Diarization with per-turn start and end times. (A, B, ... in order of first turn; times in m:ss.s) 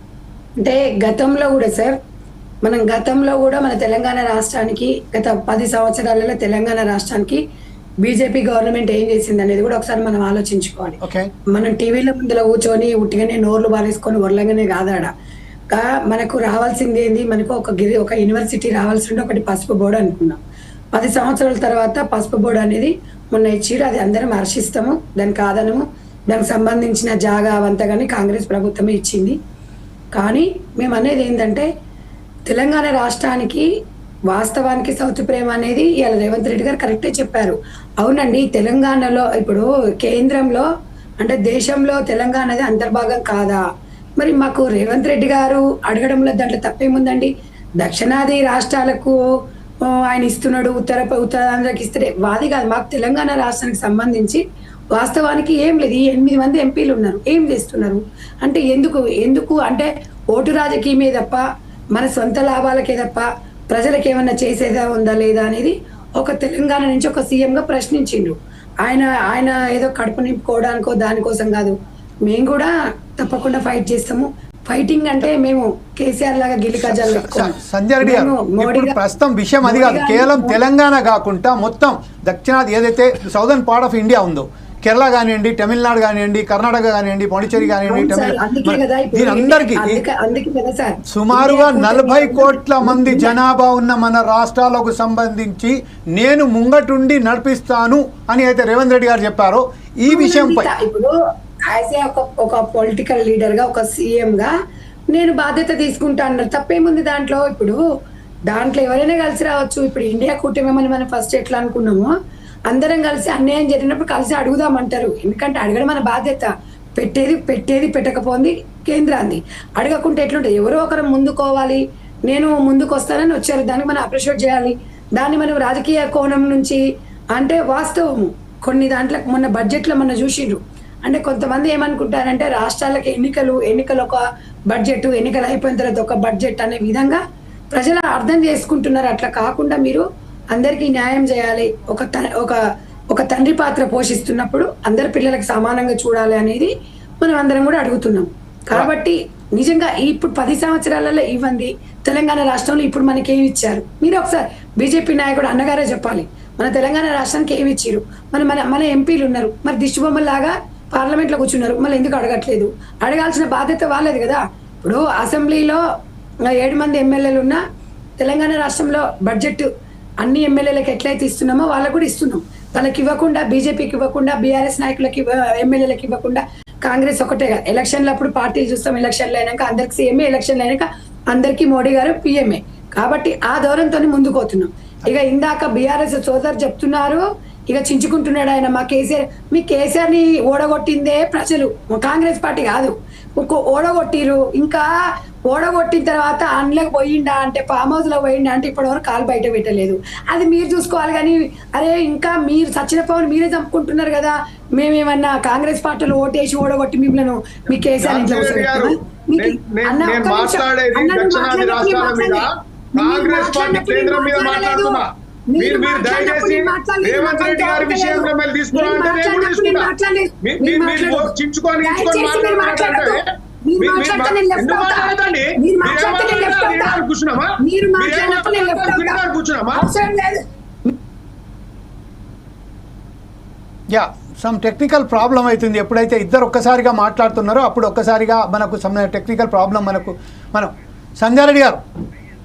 0:00.6-0:02.0 A
0:02.6-0:07.4 A
0:08.0-0:11.0 A
0:11.0-0:11.3 B
0:11.5-0:15.1 A
0:15.7-0:20.4 A
0:20.9-0:29.4 A
0:30.2-0:31.7 A
0:32.5-0:33.7 A
0:34.3-0:40.7 A
0:41.2-0:43.6 A
0:44.2-0:49.2 A
0:49.9-0:54.4 A
0:55.0-1:01.4 A
1:02.0-1:11.8 A
1:12.3-1:19.0 A
1:16.8-1:30.0 B
1:19.6-1:20.6 A
1:27.6-1:33.4 A
1:31.1-1:40.7 B
1:40.1-1:41.1 A
1:41.7-1:44.5 A
1:45.1-1:47.8 A
1:48.5-1:52.1 A
1:52.7-2:06.8 A
2:07.4-2:17.2 A
2:17.7-2:22.6 A
2:23.1-2:26.7 A
2:27.2-2:45.8 A
2:46.5-2:47.6 A
2:48.2-2:49.7 A
2:50.2-3:14.9 A
3:15.5-3:32.4 A
3:28.0-3:39.9 C
3:33.0-3:47.0 A
3:40.4-3:43.2 C
3:43.8-3:49.9 C
3:47.6-3:49.2 A
3:49.7-3:50.4 A
3:53.9-4:01.8 B